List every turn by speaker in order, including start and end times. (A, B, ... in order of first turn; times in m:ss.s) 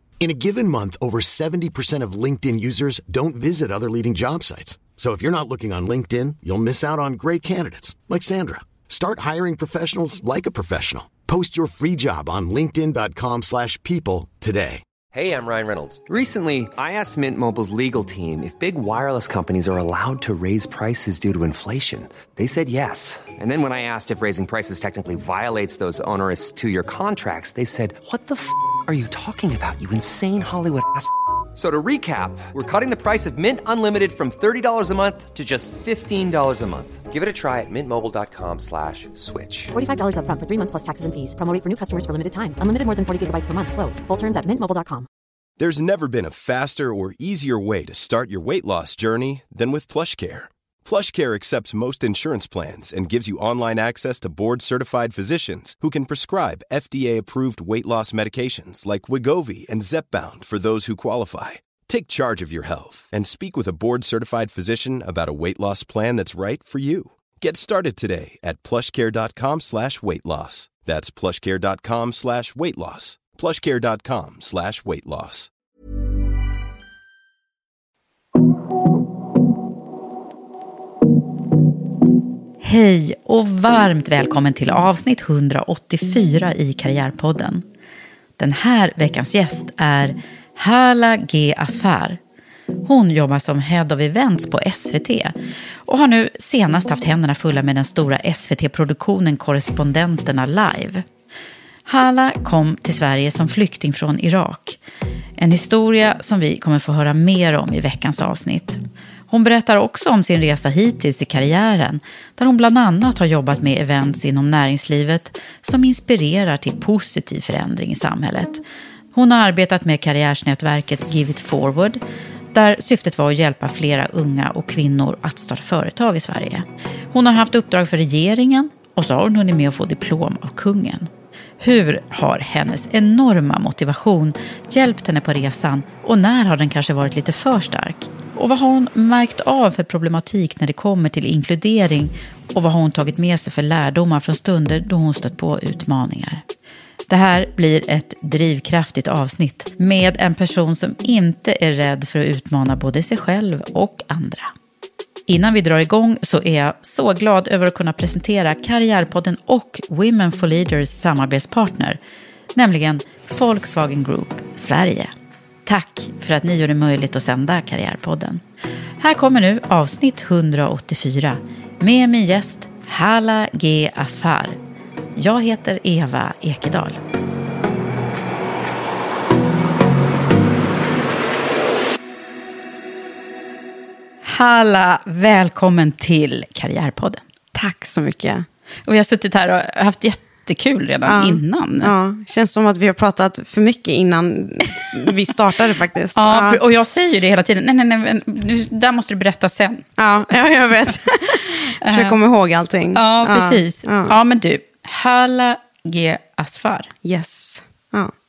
0:00.2-0:14.8 A
0:15.1-0:39.7 B
0:39.7-0:45.1 C
0:45.6-1:15.5 D
1:22.6-1:27.6 E
1:28.4-1:32.2 E
1:32.9-1:41.0 E
1:41.9-1:44.8 E
1:45.4-1:58.6 E
1:59.1-2:02.0 E
2:02.5-2:26.4 E
2:27.1-2:34.5 E
2:35.3-2:42.0 E
2:42.6-2:45.1 E
2:45.7-2:48.4 E
2:49.0-2:54.6 E
2:55.2-2:57.0 E
3:04.2-3:07.2 E
3:07.6-3:08.5 F
3:08.9-3:11.9 E
3:11.1-3:16.6 F
3:16.2-3:19.9 E
3:20.0-3:24.1 F
3:21.8-3:22.2 E
3:22.9-3:26.9 E
3:27.0-3:28.1 F